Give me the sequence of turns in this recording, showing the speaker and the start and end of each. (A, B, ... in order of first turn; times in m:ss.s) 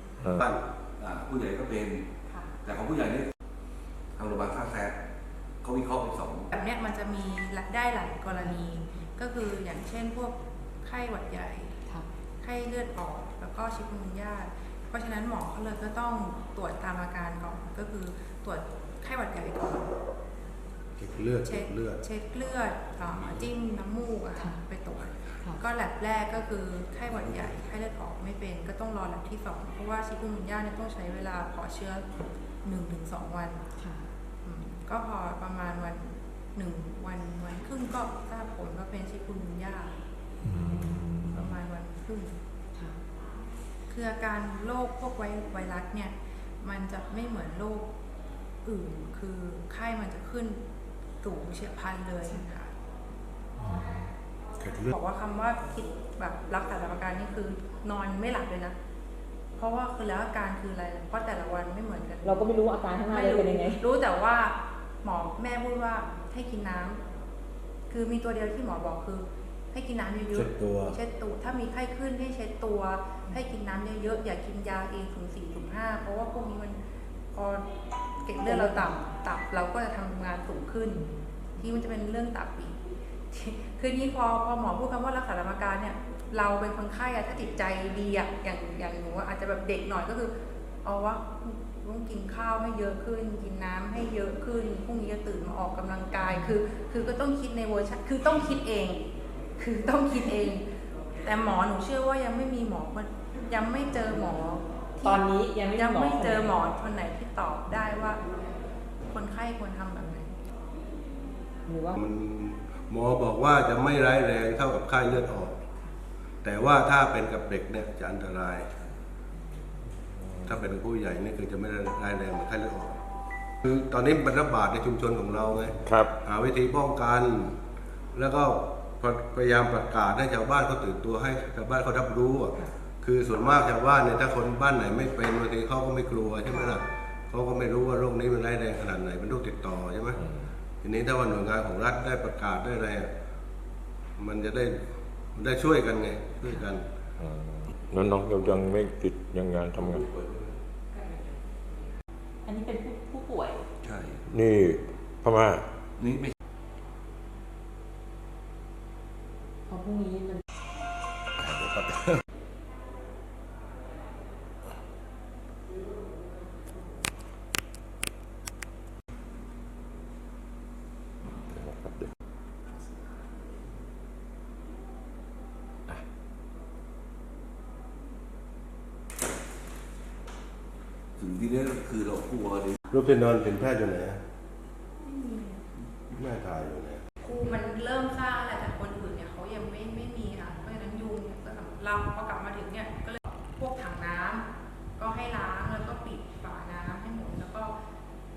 0:00.3-0:00.6 A
0:01.0-0:02.1 B
0:02.6-0:03.3 B
0:04.2-0:05.0 B
0:05.6-0:06.5 B
0:06.5-0:11.8 C
0:12.4-0:20.0 C
0:21.0-0:22.0 A
0:21.4-0:32.1 C
0:24.4-0:24.6 D
0:32.6-0:33.6 C
0:33.8-0:34.1 D
0:34.4-0:40.0 C
0:40.4-0:41.6 E
0:40.5-0:41.0 D
0:41.3-0:42.4 C
0:42.8-0:43.0 D
0:43.9-0:47.9 C
0:48.6-0:50.6 C
0:51.2-0:52.7 C
0:53.6-0:54.9 E
0:54.9-0:58.8 C
0:59.6-1:02.4 C
1:02.2-1:03.8 D
1:03.1-1:07.0 C
1:07.9-1:16.8 C
1:10.3-1:11.0 A
1:17.3-1:17.7 C
1:18.2-1:21.0 C
1:18.4-1:19.0 D
1:20.9-1:21.2 D
1:21.6-1:22.8 C
1:23.3-1:39.0 C
1:39.6-1:40.7 C
1:41.2-1:48.2 C
1:45.0-1:46.6 D
1:49.1-1:50.4 C
1:51.7-1:52.0 D
1:52.0-1:55.6 A
1:56.4-1:58.7 A
2:00.0-2:00.6 E
2:00.5-2:03.0 A
2:03.6-2:07.6 A
2:05.8-2:06.1 E
2:08.1-2:20.2 A
2:20.2-2:20.5 E
2:20.8-2:23.1 A
2:24.2-2:24.8 A
2:25.3-2:26.8 A
2:27.2-2:30.0 E
2:29.8-2:30.5 A
2:32.4-2:33.6 D
2:33.8-2:34.2 B
2:34.3-2:35.6 E
2:36.0-2:36.3 B
2:39.7-2:40.4 D
2:41.4-2:41.9 E
2:51.5-2:52.1 E
3:01.2-3:02.8 B
3:02.9-3:04.2 A
3:05.0-3:05.6 C
3:06.1-3:07.0 A
3:07.2-3:17.8 C